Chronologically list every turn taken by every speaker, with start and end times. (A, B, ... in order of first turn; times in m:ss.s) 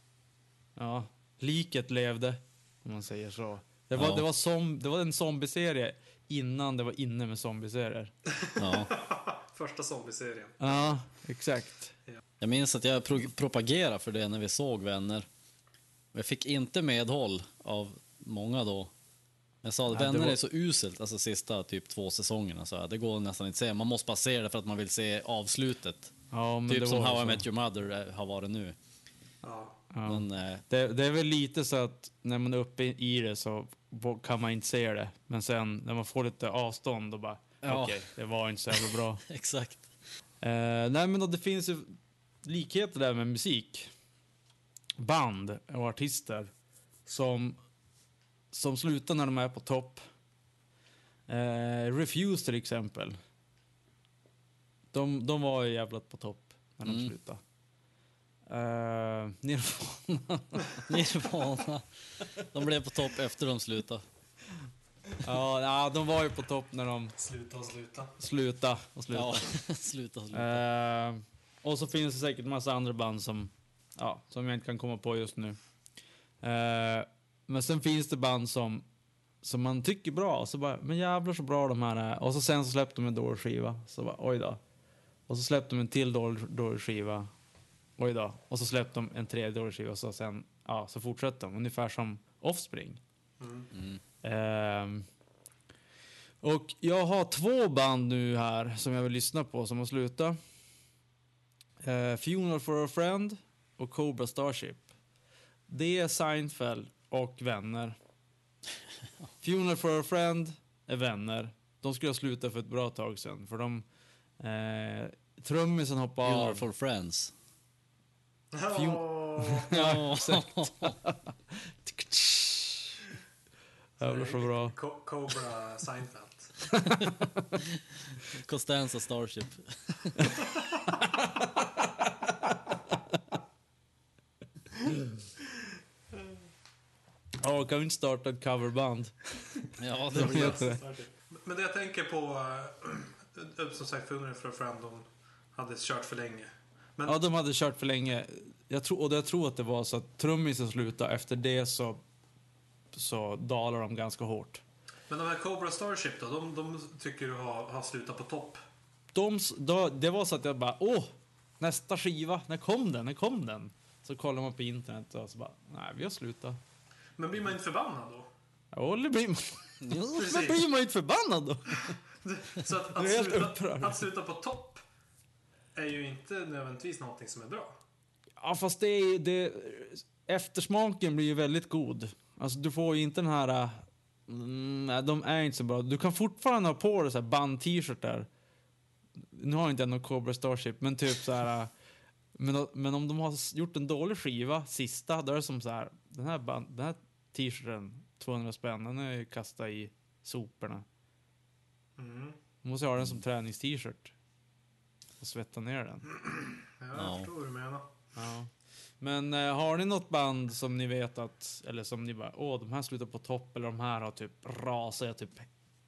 0:00.8-0:08.1 A
0:04.0-0:04.2 B
0:08.4-0:10.9 C
0:08.6-0:08.9 B
0:10.6-0:11.9 A
0:12.4-0:15.3 B
0:16.1-0:18.9 B
0:19.6-0:26.1 B
0:19.9-0:20.4 A
0:26.3-0:27.5 A
0:26.7-0:28.8 B
0:29.4-0:29.8 C
0:29.9-0:39.2 A
0:30.1-0:30.6 B
0:37.6-0:38.1 B
0:38.7-0:39.9 B
0:40.4-0:43.9 A
0:45.0-0:46.5 A
0:47.1-0:47.6 A
0:48.5-0:50.0 A
0:51.3-0:53.2 A
0:54.9-0:57.4 A
0:56.8-0:57.1 B
0:58.5-1:00.8 A
1:00.9-1:04.0 B
1:05.2-1:07.2 A
1:07.2-1:08.1 C
1:08.2-1:09.5 A
1:09.1-1:10.6 B
1:10.3-1:15.6 A
1:16.4-1:18.8 A
1:19.4-1:24.6 A
1:25.3-1:27.3 A
1:28.0-1:33.0 A
1:33.4-1:33.7 C
1:33.7-1:34.0 B
1:34.2-1:35.0 A
1:36.4-1:40.4 A
1:41.8-1:44.9 A
1:45.7-1:48.0 A
1:49.4-1:53.8 A
1:54.4-1:56.7 A
1:56.2-1:57.3 B
1:58.5-1:59.7 C
1:58.7-2:03.0 A
1:59.7-2:01.0 B
2:04.0-2:06.6 C
2:04.0-2:04.8 A
2:06.7-2:07.6 A
2:08.3-2:10.4 B
2:10.9-2:12.6 A
2:17.4-2:20.8 A
2:19.8-2:20.6 B
2:20.1-2:27.2 C
2:27.1-2:32.0 A
2:32.9-2:34.6 A
2:35.1-2:38.6 C
2:39.1-2:46.6 A
2:47.2-2:48.3 C
2:48.7-2:52.0 A
2:50.1-2:50.6 C
2:52.2-2:54.8 C
2:52.9-2:54.1 A
2:55.8-2:57.8 C
2:58.4-3:08.3 A
3:09.3-3:11.7 A
3:12.4-3:20.9 A
3:22.0-3:22.4 C
3:22.6-3:24.1 A
3:25.2-3:26.0 A
3:26.8-3:27.9 C
3:27.0-3:27.3 B
3:28.2-3:35.5 A